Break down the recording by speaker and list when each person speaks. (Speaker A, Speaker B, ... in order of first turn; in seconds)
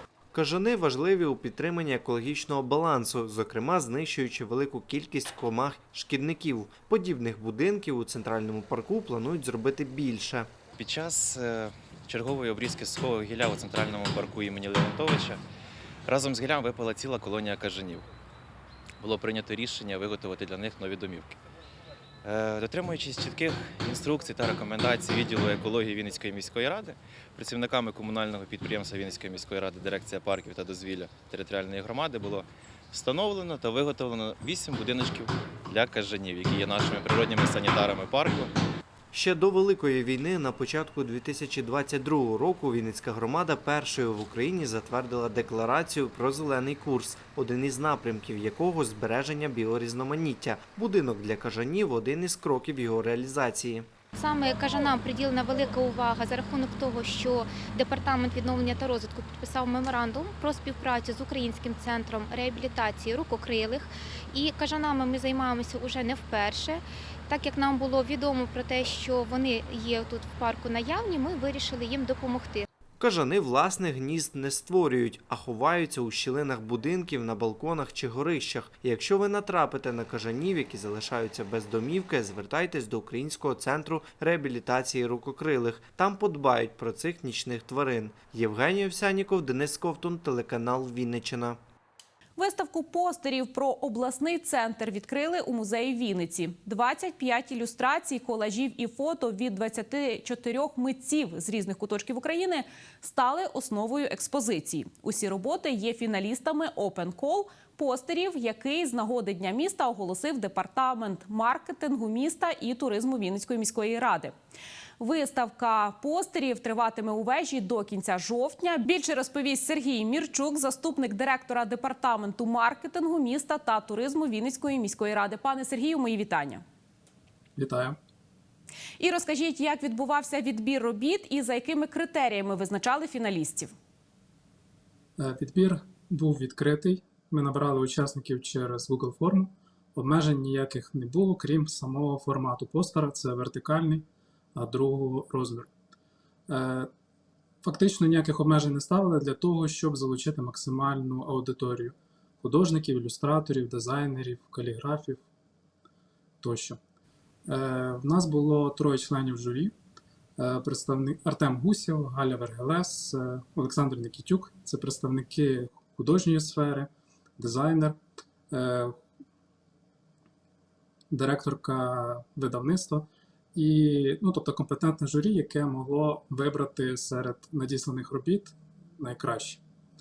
Speaker A: 0.3-10.5, 39.1-53.9, 73.0-91.6
Speaker B: 10.8-15.4, 16.1-18.0, 19.0-21.4, 22.2-38.5
Speaker C: 54.1-72.7
Speaker D: 92.4-114.3, 115.0-126.6, 129.0-133.7
Speaker E: 127.6-128.0, 135.2-145.7, 146.5-146.9, 147.6-155.2, 156.4-156.8, 157.5-159.7, 160.4-169.0, 171.1-179.6